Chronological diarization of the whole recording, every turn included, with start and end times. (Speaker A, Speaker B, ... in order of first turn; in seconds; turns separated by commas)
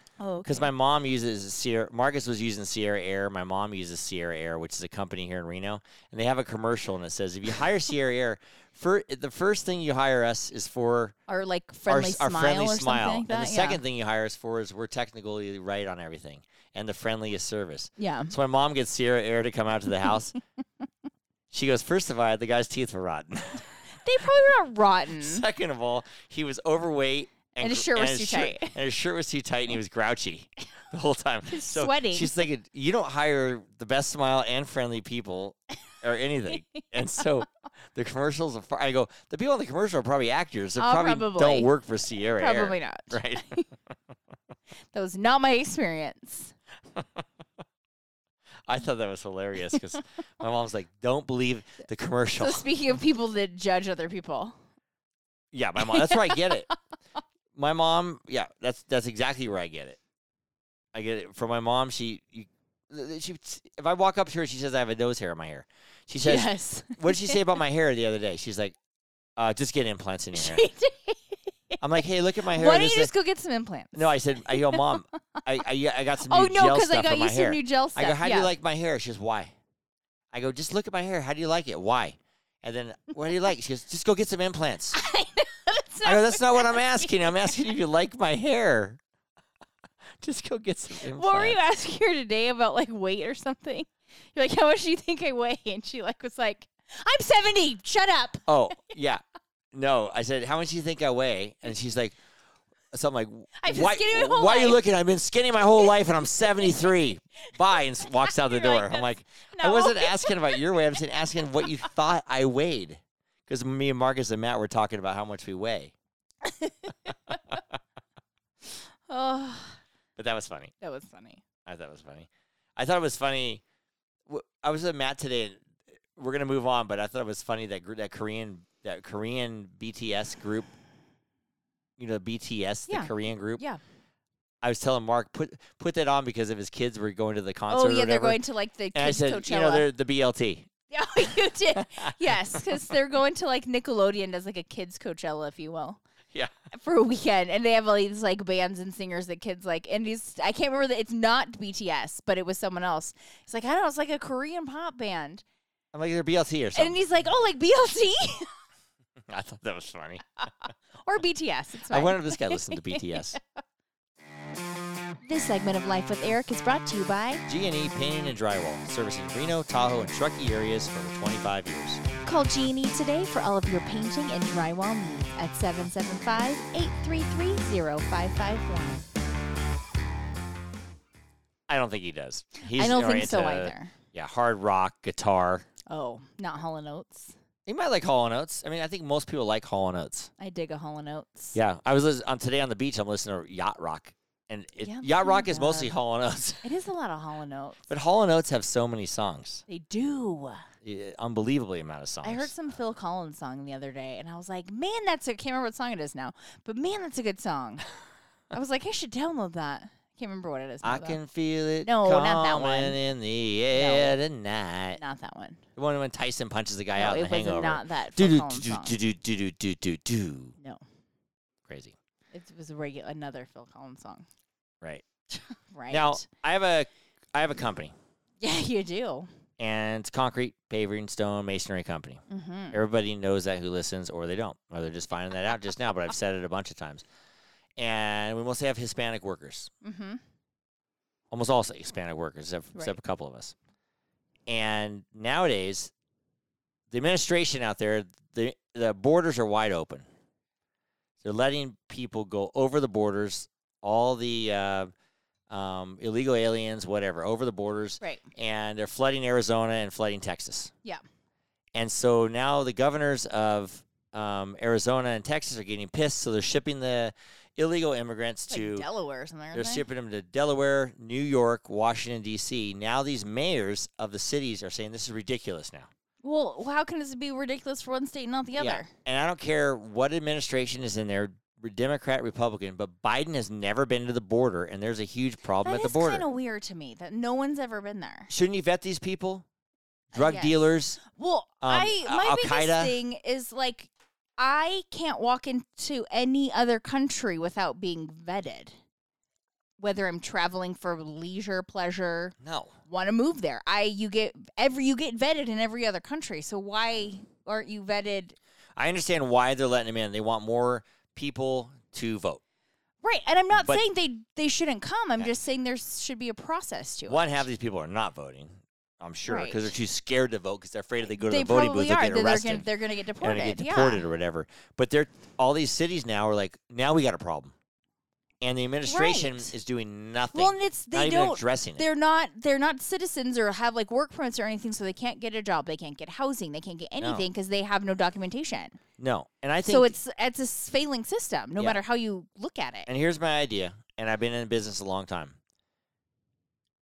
Speaker A: 0.2-0.7, Speaker B: 0.5-11.2, Speaker A: 11.3-13.8, Speaker B: 11.9-20.3, Speaker A: 18.0-18.3, Speaker B: 21.5-23.7, Speaker A: 23.9-25.4, Speaker B: 25.2-43.5, Speaker A: 27.6-28.7, Speaker A: 31.5-32.4, Speaker A: 36.6-36.9, Speaker A: 40.8-41.7, Speaker A: 42.3-43.7, Speaker A: 44.9-46.5, Speaker B: 46.9-47.2, Speaker B: 48.7-52.6, Speaker A: 52.4-54.6, Speaker B: 55.5-56.7, Speaker A: 55.8-56.7, Speaker B: 57.5-60.0, Speaker B: 60.9-68.7, Speaker A: 66.2-67.4, Speaker B: 69.4-70.7, Speaker A: 70.3-71.8, Speaker B: 71.8-73.1, Speaker A: 72.5-75.0, Speaker B: 73.9-79.5, Speaker A: 76.2-78.5, Speaker B: 80.3-85.0, Speaker A: 84.9-87.7, Speaker B: 86.0-89.0, Speaker B: 90.2-91.6, Speaker A: 91.0-98.5, Speaker B: 98.5-99.2, Speaker B: 99.7-102.2, Speaker B: 102.9-115.9, Speaker A: 103.6-104.8, Speaker A: 106.4-107.0, Speaker A: 107.7-111.6, Speaker A: 116.4-117.4, Speaker A: 119.1-119.8, Speaker B: 120.2-120.7, Speaker A: 120.8-121.4, Speaker B: 121.7-123.6, Speaker B: 124.3-125.6, Speaker B: 126.2-130.7, Speaker B: 132.0-133.6, Speaker A: 132.9-133.8, Speaker B: 134.6-138.4, Speaker A: 137.7-139.9, Speaker B: 138.9-140.7, Speaker A: 140.9-146.0, Speaker B: 141.7-142.8, Speaker A: 146.7-155.4, Speaker B: 155.9-157.0, Speaker A: 156.7-158.5, Speaker B: 159.2-160.2, Speaker A: 161.0-163.4, Speaker B: 161.9-163.4, Speaker A: 165.2-167.4, Speaker B: 167.4-172.0, Speaker A: 172.2-179.0, Speaker B: 181.7-185.7, Speaker A: 182.6-183.9, Speaker A: 185.9-187.3, Speaker B: 187.7-190.3, Speaker A: 190.4-191.6, Speaker B: 191.5-196.6, Speaker A: 194.8-195.9, Speaker A: 196.6-197.8, Speaker B: 197.9-199.6, Speaker A: 199.7-200.6, Speaker B: 200.8-202.5, Speaker A: 202.2-207.8, Speaker A: 208.5-211.2, Speaker B: 210.8-215.0, Speaker A: 211.8-213.0, Speaker A: 213.7-214.2, Speaker A: 214.9-215.6, Speaker B: 215.8-220.6, Speaker A: 216.9-219.0, Speaker B: 221.7-221.9, Speaker A: 222.3-224.3, Speaker A: 225.3-226.2, Speaker B: 225.9-227.9, Speaker A: 228.4-229.3, Speaker B: 229.6-237.0, Speaker A: 232.3-232.8, Speaker B: 237.8-239.7, Speaker A: 239.8-240.2, Speaker B: 241.3-243.5, Speaker B: 244.5-245.9, Speaker B: 246.9-250.1, Speaker B: 251.2-254.9, Speaker B: 255.5-260.7, Speaker A: 258.0-258.3, Speaker B: 261.7-268.9, Speaker A: 268.5-269.8, Speaker B: 269.5-275.9, Speaker A: 276.2-278.9, Speaker B: 278.6-286.2, Speaker A: 285.6-288.3, Speaker B: 288.3-289.4, Speaker B: 290.1-291.0, Speaker A: 290.1-298.8, Speaker B: 291.6-293.0, Speaker A: 299.8-308.4, Speaker B: 302.4-302.7, Speaker B: 308.8-312.4, Speaker A: 313.0-317.4, Speaker B: 313.5-313.8, Speaker B: 317.1-322.6, Speaker A: 319.3-319.7, Speaker A: 321.1-324.0, Speaker B: 323.2-327.5, Speaker B: 328.4-331.8, Speaker A: 328.8-329.5, Speaker A: 330.3-338.8, Speaker B: 337.0-337.3, Speaker B: 339.0-339.9, Speaker A: 339.6-342.9, Speaker B: 342.9-345.4